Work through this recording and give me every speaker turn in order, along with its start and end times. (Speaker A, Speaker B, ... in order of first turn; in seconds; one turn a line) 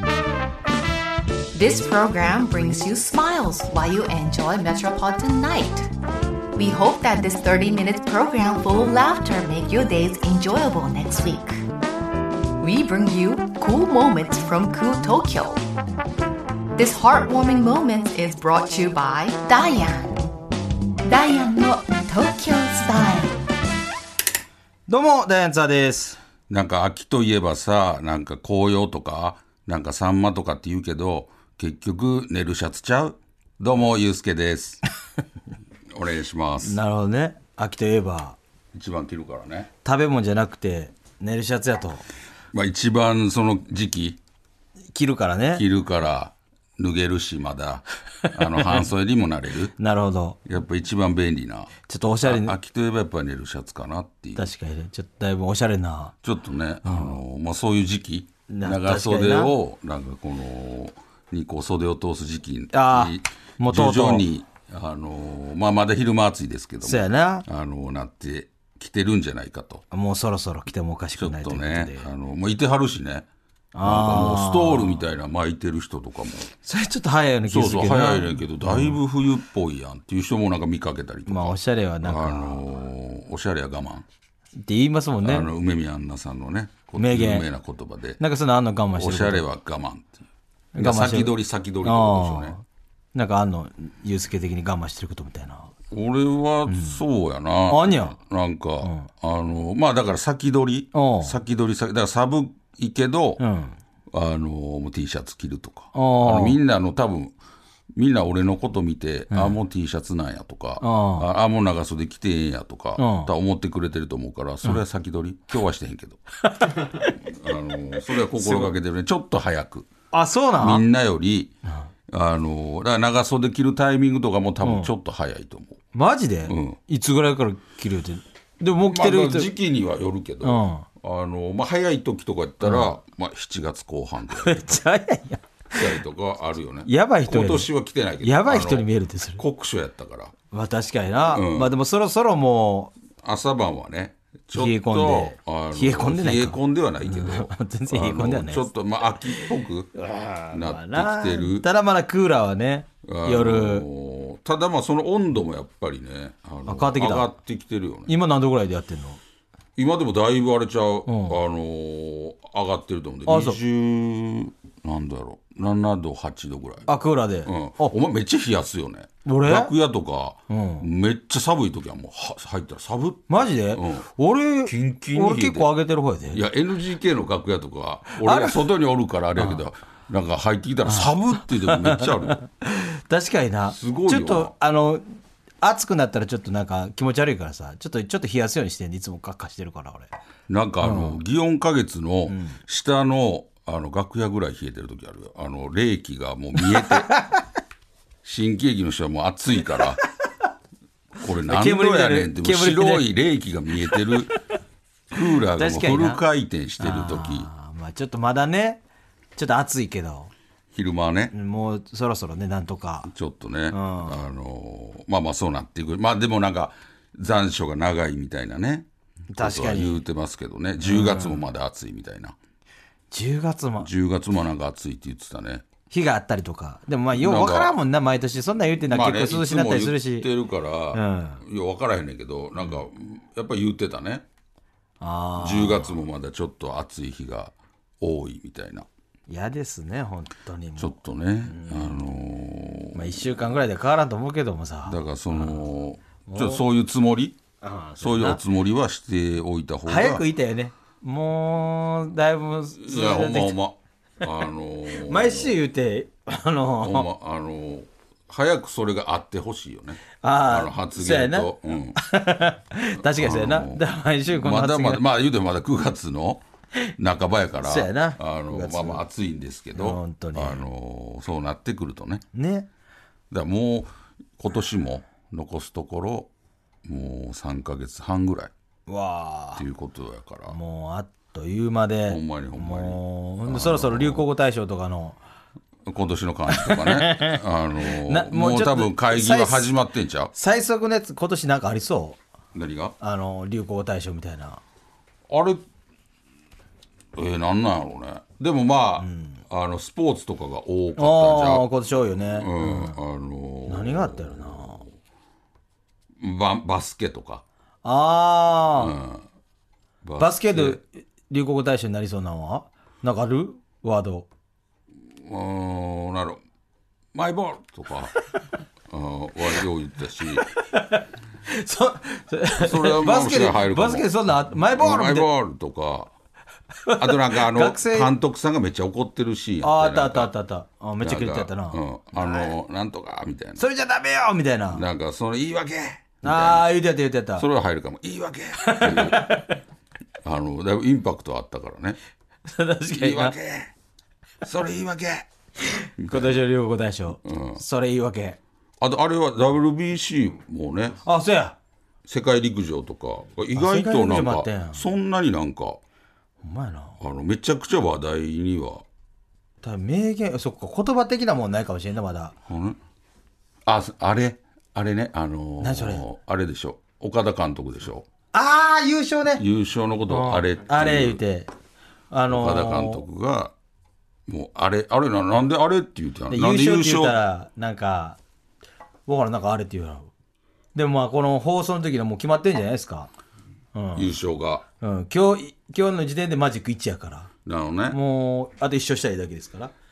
Speaker A: 1.5-5.9
Speaker A: 6.5-11.6
Speaker A: 12.6-15.6
Speaker A: 16.8-20.2
Speaker A: 21.0-23.4
Speaker B: 24.9-26.2
Speaker C: 26.5-34.8
Speaker C: 35.9-36.8
Speaker B: 36.6-38.4
Speaker C: 38.7-39.7
Speaker B: 39.8-42.0
Speaker C: 42.5-44.2
Speaker B: 44.9-45.6
Speaker C: 45.5-49.7
Speaker B: 49.8-50.4
Speaker C: 50.5-54.5
Speaker B: 51.9-52.5
Speaker B: 54.4-56.1
Speaker C: 56.2-69.8
Speaker B: 56.8-57.2
Speaker B: 58.5-59.5
Speaker B: 62.7-64.3
Speaker B: 66.8-67.5
Speaker B: 69.9-72.1
Speaker C: 71.2-73.3
Speaker B: 73.7-75.0
Speaker C: 73.8-76.5
Speaker B: 76.6-79.0
Speaker C: 77.5-84.0
Speaker B: 81.3-82.6
Speaker B: 84.6-85.5
Speaker C: 85.2-88.2
Speaker B: 87.0-87.5
Speaker B: 88.2-89.5
Speaker C: 89.0-90.2
Speaker B: 90.7-92.6
Speaker C: 90.8-92.5
Speaker B: 93.1-95.7
Speaker C: 95.9-103.4
Speaker B: 96.7-97.0
Speaker B: 97.7-98.2
Speaker B: 98.8-99.1
Speaker B: 100.9-101.3
Speaker B: 103.4-103.8
Speaker C: 104.1-107.3
Speaker B: 105.9-106.6
Speaker C: 107.9-116.2
Speaker B: 109.3-109.5
Speaker B: 110.8-111.2
Speaker B: 113.0-113.3
Speaker B: 116.4-117.3
Speaker C: 117.2-119.9
Speaker B: 118.3-118.7
Speaker B: 120.1-120.8
Speaker C: 120.5-121.5
Speaker C: 122.1-125.8
Speaker B: 124.6-124.9
Speaker B: 125.9-129.5
Speaker C: 126.5-126.8
Speaker C: 128.8-134.8
Speaker B: 130.4-130.8
Speaker B: 132.6-132.9
Speaker B: 134.3-135.9
Speaker C: 135.7-140.3
Speaker B: 136.8-137.7
Speaker B: 138.2-139.4
Speaker B: 140.5-142.9
Speaker C: 141.2-141.7
Speaker C: 143.2-149.9
Speaker B: 144.5-148.7
Speaker B: 149.4-153.8
Speaker C: 150.5-151.7
Speaker C: 153.0-158.1
Speaker B: 156.7-157.3
Speaker B: 158.1-159.2
Speaker C: 159.8-166.9
Speaker B: 161.1-161.4
Speaker B: 163.3-163.6
Speaker B: 166.8-167.9
Speaker C: 167.4-174.1
Speaker B: 169.2-169.7
Speaker B: 170.5-170.8
Speaker B: 173.3-176.4
Speaker C: 174.6-175.7
Speaker C: 176.3-182.4
Speaker B: 178.1-178.7
Speaker B: 179.4-179.6
Speaker B: 180.8-190.1
Speaker C: 183.7-184.5
Speaker C: 190.5-197.1
Speaker B: 190.8-191.2
Speaker B: 192.3-192.6
Speaker B: 196.6-197.4
Speaker C: 198.2-200.0
Speaker C: 201.2-204.4
Speaker B: 201.4-203.1
Speaker C: 205.1-207.5
Speaker B: 205.5-206.2
Speaker B: 206.8-208.8
Speaker B: 209.3-210.3
Speaker C: 210.7-211.3
Speaker B: 211.3-213.1
Speaker C: 213.1-222.3
Speaker B: 213.7-214.2
Speaker B: 219.3-220.0
Speaker B: 220.8-221.4
Speaker B: 223.1-223.9
Speaker C: 223.8-225.7
Speaker B: 225.9-230.3
Speaker C: 227.1-227.8
Speaker C: 228.8-234.2
Speaker B: 230.9-231.4
Speaker B: 235.0-235.9
Speaker C: 235.4-238.8
Speaker B: 239.3-242.0
Speaker C: 240.8-243.5
Speaker B: 242.9-245.6
Speaker C: 244.9-247.4
Speaker B: 246.3-246.6
Speaker B: 247.6-248.4
Speaker C: 248.0-250.2
Speaker B: 249.8-253.6
Speaker C: 252.8-255.6
Speaker B: 254.9-257.1
Speaker C: 256.8-262.0
Speaker B: 260.2-265.0
Speaker C: 263.0-266.4
Speaker C: 267.0-272.2
Speaker B: 267.6-269.0
Speaker B: 269.7-270.6
Speaker B: 272.3-272.7
Speaker C: 273.3-276.3
Speaker C: 276.8-278.5
Speaker B: 278.9-279.6
Speaker C: 279.6-280.6
Speaker B: 280.5-285.2
Speaker C: 282.1-284.2
Speaker C: 285.9-290.3
Speaker B: 286.5-289.7
Speaker B: 290.3-292.2
Speaker C: 292.5-292.9
Speaker B: 293.0-294.6
Speaker C: 295.3-295.6
Speaker C: 297.1-301.7
Speaker B: 299.0-299.3
Speaker B: 301.0-303.0
Speaker C: 302.3-304.9
Speaker B: 303.7-304.8
Speaker C: 306.2-307.4
Speaker B: 307.8-308.9
Speaker C: 308.8-309.2
Speaker C: 310.0-310.8
Speaker B: 310.2-314.3
Speaker C: 315.1-316.4
Speaker C: 317.1-318.1
Speaker C: 318.9-320.4
Speaker B: 320.3-325.3
Speaker C: 322.6-326.1
Speaker B: 326.8-328.1
Speaker C: 326.9-330.3
Speaker B: 329.6-332.5
Speaker C: 331.0-333.6
Speaker B: 333.6-334.8
Speaker C: 334.7-336.7
Speaker B: 336.2-337.4
Speaker C: 337.4-339.4
Speaker B: 338.6-339.6
Speaker C: 340.2-342.0
Speaker B: 342.5-343.4
Speaker C: 342.9-343.7
Speaker C: 344.4-345.3
Speaker B: 345.7-348.4
Speaker C: 346.0-346.4
Speaker C: 347.2-347.6
Speaker C: 348.8-351.0
Speaker B: 351.0-351.6
Speaker C: 352.1-355.8
Speaker B: 353.5-354.8
Speaker B: 356.4-357.0
Speaker C: 357.0-358.8
Speaker B: 359.6-362.3
Speaker C: 362.4-362.8
Speaker C: 363.6-368.1
Speaker B: 365.6-366.0
Speaker B: 368.3-369.4
Speaker C: 369.4-371.2
Speaker B: 370.1-371.5
Speaker B: 372.1-373.0
Speaker C: 372.3-373.5
Speaker C: 374.3-377.2
Speaker B: 376.3-378.2
Speaker B: 379.1-380.1
Speaker B: 380.7-383.1
Speaker B: 383.7-384.1
Speaker C: 383.9-384.6
Speaker B: 384.8-387.3
Speaker C: 387.4-388.0
Speaker B: 387.9-389.7